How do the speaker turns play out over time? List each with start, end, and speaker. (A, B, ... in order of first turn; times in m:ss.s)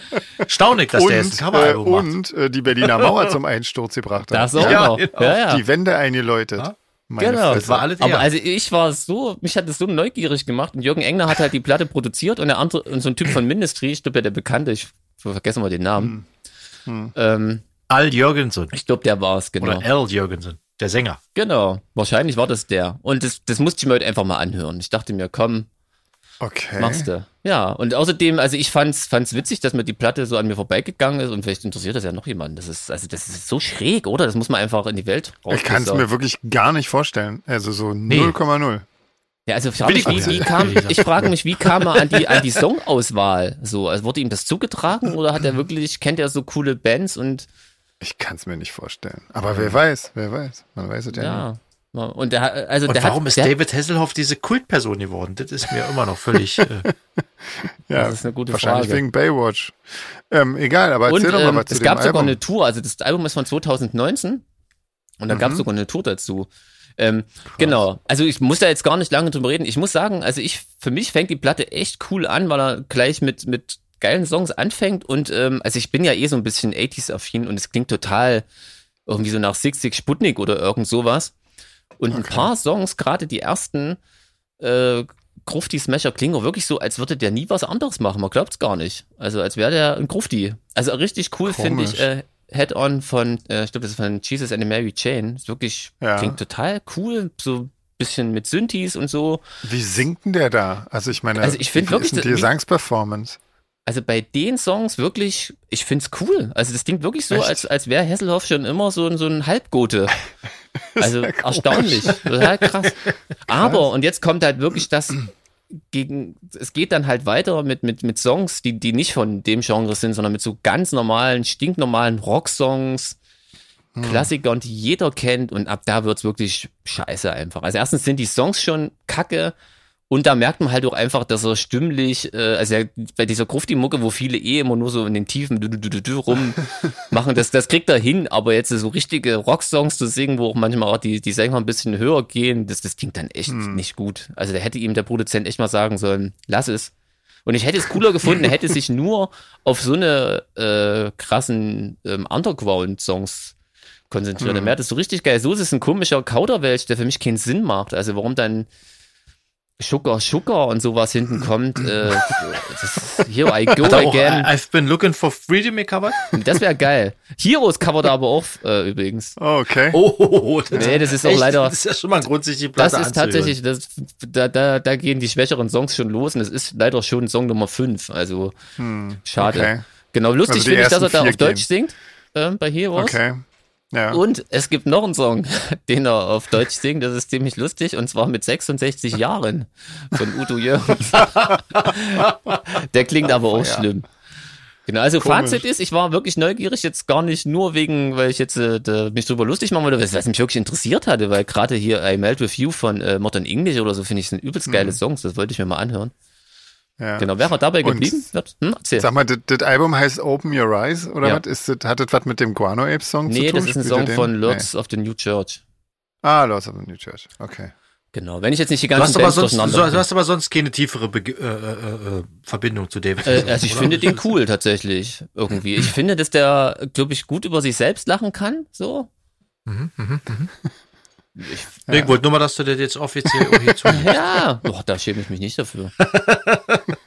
0:00.4-0:02.1 A
0:00.9-0:07.9 B
0:02.8-0:03.3 A
0:04.3-0:05.6 C
0:04.6-0:05.4 A
0:07.2-0:16.2 C
0:07.5-0:08.3 A
0:16.0-0:16.2 B
0:16.9-0:17.1 B
0:17.1-0:17.6 C
0:17.9-0:18.7 A
0:18.7-0:19.8 C
0:19.6-0:21.2 A
0:21.3-0:25.7 C
0:26.4-0:27.1 B
0:26.8-0:36.0 C
0:35.5-0:38.8 B
0:38.1-0:38.4 A
0:39.5-0:47.5 C
0:39.8-0:42.4 A
0:40.0-0:40.8 B
0:48.0-0:51.4 B
0:51.1-0:53.5 C
0:52.9-0:56.9 A
0:56.6-0:56.9 B
0:57.4-1:02.4 B
0:57.9-0:59.0 C
1:01.0-1:04.4 C
1:05.2-1:18.4 C
1:05.3-1:05.6 B
1:07.5-1:07.8 B
1:19.1-1:21.3 C
1:22.0-1:24.0 C
1:22.1-1:22.5 B
1:24.6-1:39.4 C
1:31.4-1:32.0 B
1:36.0-1:36.4 B
1:39.6-1:43.4 B
1:41.4-1:42.5 C
1:43.8-1:50.2 C
1:47.3-1:47.6 B
1:50.9-1:52.4 B
1:51.0-1:55.3 C
1:53.5-1:53.8 B
1:55.9-2:03.2 C
2:03.9-2:04.3 B
2:04.0-2:09.5 C
2:10.1-2:26.9 C
2:23.5-2:23.8 B
2:27.4-2:33.5 C
2:34.1-2:38.7 C
2:34.4-2:34.7 B
2:39.8-2:44.5 C
2:43.8-2:46.3 A
2:46.3-2:49.4 C
2:49.4-2:50.0 B
2:49.9-2:53.6 A
2:50.7-2:51.8 C
2:50.7-2:51.0 B
2:52.8-2:58.5 C
2:58.8-2:59.8 B
2:59.2-3:03.2 C
3:00.5-3:01.6 B
3:02.9-3:03.4 B
3:03.9-3:04.2 B
3:04.1-3:14.0 C
3:13.3-3:13.9 B
3:14.9-3:26.1 C
3:15.2-3:15.6 B
3:24.7-3:25.0 B
3:27.0-3:27.3 B
3:27.2-3:29.1 C
3:27.8-3:28.2 B
3:29.0-3:34.7 B
3:33.2-3:35.6 C
3:36.2-3:37.7 B
3:38.1-3:40.0 C
3:39.0-3:44.3 A
3:43.2-3:49.1 C
3:49.6-3:50.5 A
3:51.4-3:51.8 C
3:51.9-3:54.1 A
3:53.3-3:53.8 B
3:53.8-3:55.9 C
3:56.0-3:56.8 A